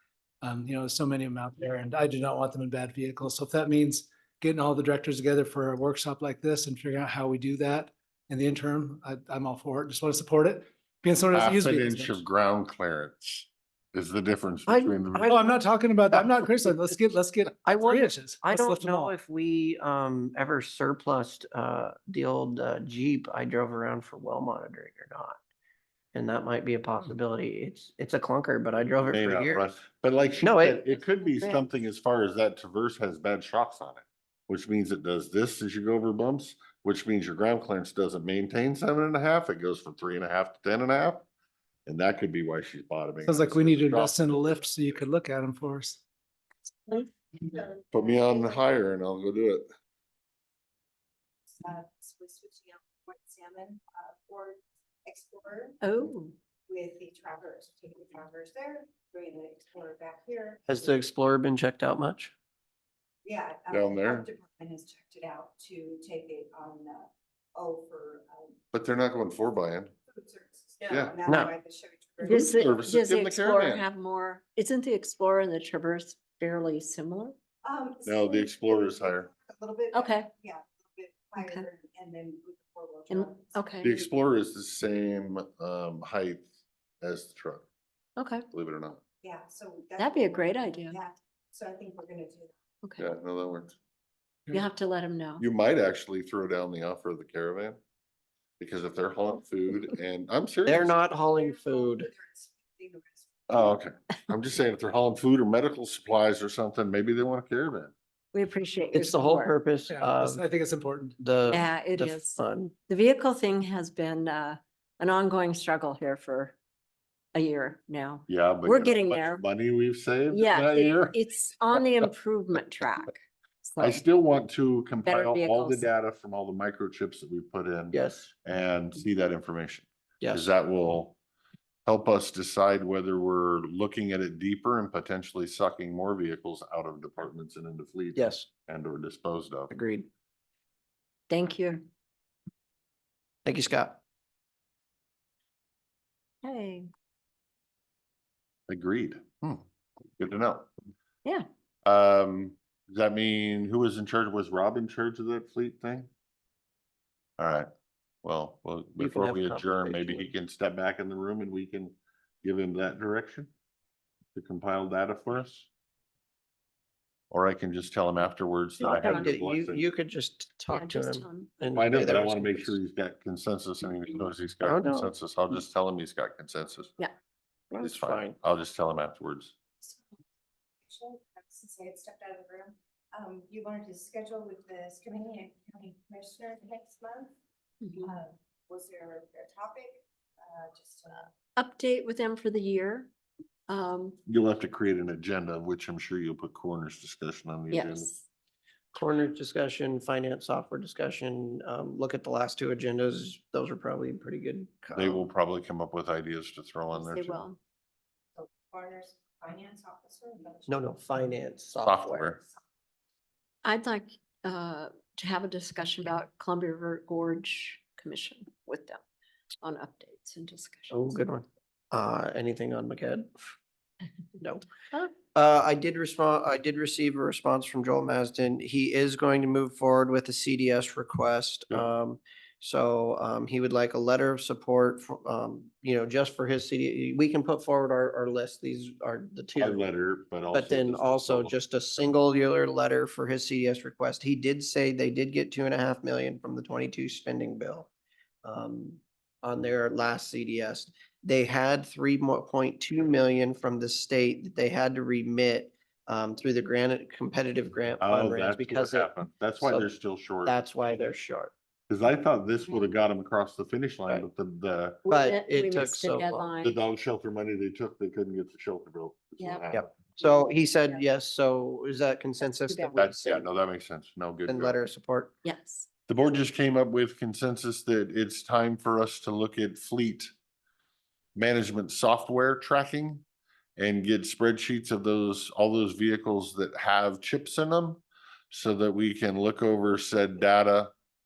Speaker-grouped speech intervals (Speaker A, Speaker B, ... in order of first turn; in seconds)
Speaker A: 0.4-12.2, 15.2-19.1, 43.2-46.0, 109.9-111.2
Speaker B: 11.3-15.3, 29.1-41.3, 41.9-45.0, 47.9-49.6, 63.7-64.3, 68.7-69.9, 70.9-71.2, 72.3-73.8, 78.0-79.3, 83.8-86.4, 87.0-87.7, 88.5-89.0, 93.0-93.7, 95.4-97.8, 98.6-100.9, 103.5-107.9, 118.3-121.2, 123.8-131.2, 131.8-139.7, 148.7-149.6, 150.2-150.7, 151.8-156.1, 157.4-157.7, 158.2-163.5, 164.3-165.7, 167.3-169.8, 171.7-176.9, 177.8-179.5, 194.2-198.1, 204.9-207.4, 211.8-212.4, 239.6-241.6, 258.0-260.5, 261.9-265.0, 266.6-269.9, 273.0-274.8, 276.1-280.3, 281.3-283.2, 283.8-290.9
Speaker C: 14.7-15.5, 17.6-25.4, 26.1-29.7, 30.4-30.8, 60.6-62.3, 71.2-71.5, 100.7-102.1, 108.9-110.4, 111.2-112.7, 127.9-128.3, 130.2-130.5, 138.1-138.5, 139.7-140.1, 143.4-144.0, 159.0-160.3, 168.8-172.8, 174.6-175.1, 177.7-178.3, 198.9-205.3, 210.7-212.2, 220.9-223.4, 224.4-224.6, 225.2-239.8, 240.5-247.9, 248.4-259.1, 259.6-259.9, 260.4-261.5, 265.1-266.5, 269.7-273.5, 274.4-275.3
Speaker D: 31.0-31.6, 55.8-56.3, 72.2-77.3, 79.9-80.3, 81.3-81.7, 83.1-83.9, 88.2-88.5, 90.0-91.0, 94.5-95.4, 108.3-109.5, 111.5-116.5, 117.3-119.4, 120.3-124.0, 125.0-125.8, 141.3-141.8, 146.4-146.9, 168.8-169.3, 170.7-171.5, 187.8-188.1, 191.5-193.1, 193.7-194.2, 197.7-198.2, 206.9-207.6, 213.6-219.0, 219.6-221.1, 265.0-266.8, 270.2-271.0, 272.4-273.1, 275.4-275.9
Speaker E: 46.9-48.6, 51.6-55.8, 56.7-60.9, 63.2-68.5, 70.1-72.7, 77.6-83.5, 89.2-92.5, 101.3-103.7, 180.8-187.3, 187.9-191.3, 208.3-211.2, 212.2-212.5